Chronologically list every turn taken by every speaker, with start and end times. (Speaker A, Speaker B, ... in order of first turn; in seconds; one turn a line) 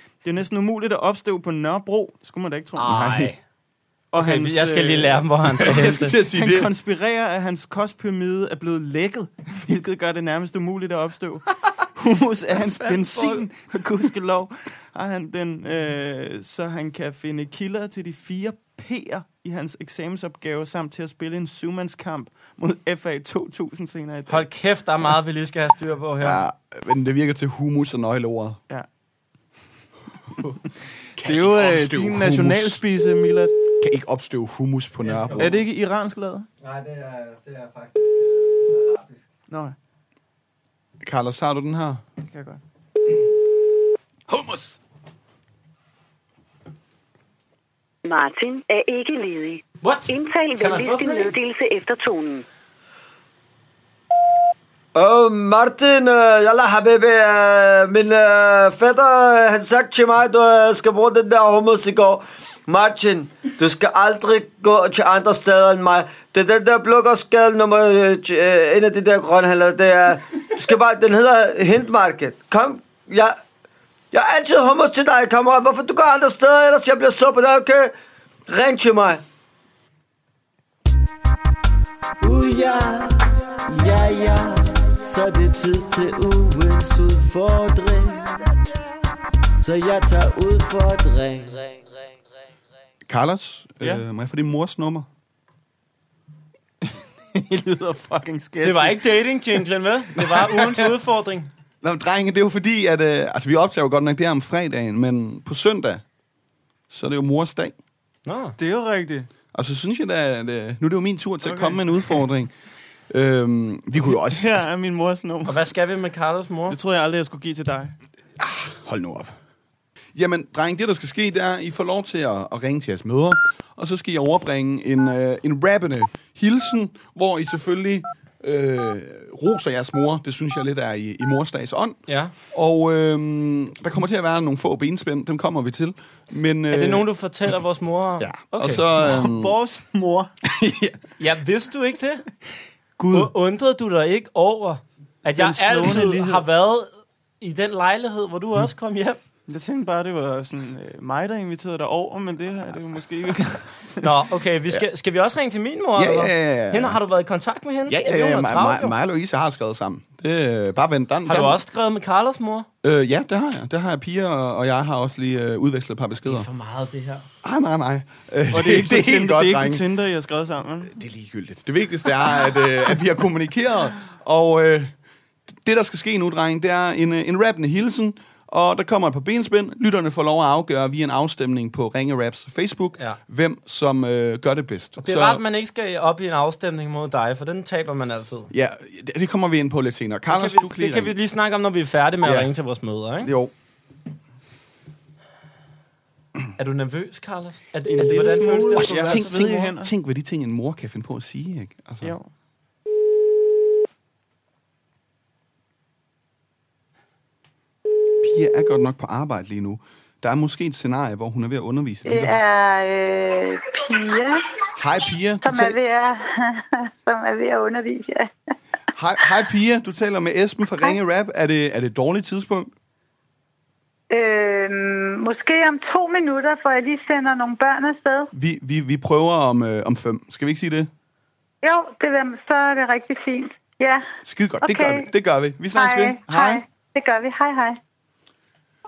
Speaker A: 0.2-2.9
Speaker B: 2.8-3.4
Speaker C: 2.9-3.3
Speaker A: 4.1-5.2
Speaker B: 4.2-6.2
Speaker C: 5.6-6.7
Speaker A: 6.2-11.4
Speaker A: 11.9-24.5
Speaker B: 12.6-13.4
Speaker B: 24.3-26.4
Speaker C: 26.2-28.6
Speaker C: 31.1-32.8
Speaker A: 31.2-33.5
Speaker C: 33.8-35.6
Speaker A: 35.3-36.5
Speaker D: 36.6-39.2
Speaker A: 39.5-39.8
Speaker C: 41.0-42.0
Speaker A: 42.2-42.6
Speaker C: 44.3-44.8
Speaker E: 48.0-52.4
Speaker B: 49.8-51.3
Speaker D: 54.9-73.3
Speaker D: 74.1-77.9
Speaker D: 78.5-79.2
Speaker D: 82.2-88.5
Speaker D: 89.6-92.1
Speaker C: 93.0-95.1
Speaker A: 96.8-99.1
Speaker B: 98.6-101.5
Speaker C: 100.3-100.9
Speaker C: 101.8-106.0
Speaker C: 106.9-107.7
Speaker B: 108.2-108.5
Speaker A: 108.6-109.3
Speaker C: 109.5-112.5
Speaker A: 111.4-112.1
Speaker C: 113.1-114.7
Speaker A: 114.1-115.7
Speaker B: 115.5-116.8
Speaker A: 116.7-117.9
Speaker C: 118.4-119.3
Speaker C: 120.1-132.0
Speaker B: 132.1-132.3
Speaker C: 132.5-137.1
Speaker B: 136.7-139.0
Speaker C: 138.2-139.6
Speaker A: 139.0-140.3
Speaker C: 140.5-141.0
Speaker B: 141.2-142.2
Speaker A: 143.0-143.3
Speaker B: 143.1-146.9
Speaker A: 145.2-146.4
Speaker B: 147.4-149.2
Speaker A: 149.5-154.0
Speaker B: 154.0-158.9
Speaker C: 155.9-157.0
Speaker C: 157.9-161.6
Speaker B: 161.3-162.7
Speaker C: 162.8-166.5
Speaker B: 166.2-167.3
Speaker C: 167.4-169.8
Speaker A: 168.5-170.9
Speaker C: 170.9-174.9
Speaker C: 175.5-185.4
Speaker B: 185.0-188.5
Speaker C: 188.5-191.1
Speaker B: 190.3-193.3
Speaker C: 192.2-192.5
Speaker C: 193.2-193.5
Speaker B: 196.6-199.3
Speaker A: 197.9-199.9
Speaker C: 198.8-202.2
Speaker A: 202.0-202.3
Speaker C: 208.2-212.4
Speaker F: 212.0-214.6
Speaker C: 214.8-215.8
Speaker F: 215.4-218.3
Speaker C: 218.9-222.7
Speaker F: 224.1-228.3
Speaker C: 228.3-230.9
Speaker F: 231.6-234.1
Speaker C: 234.2-236.6
Speaker F: 234.6-235.1
Speaker F: 235.7-237.8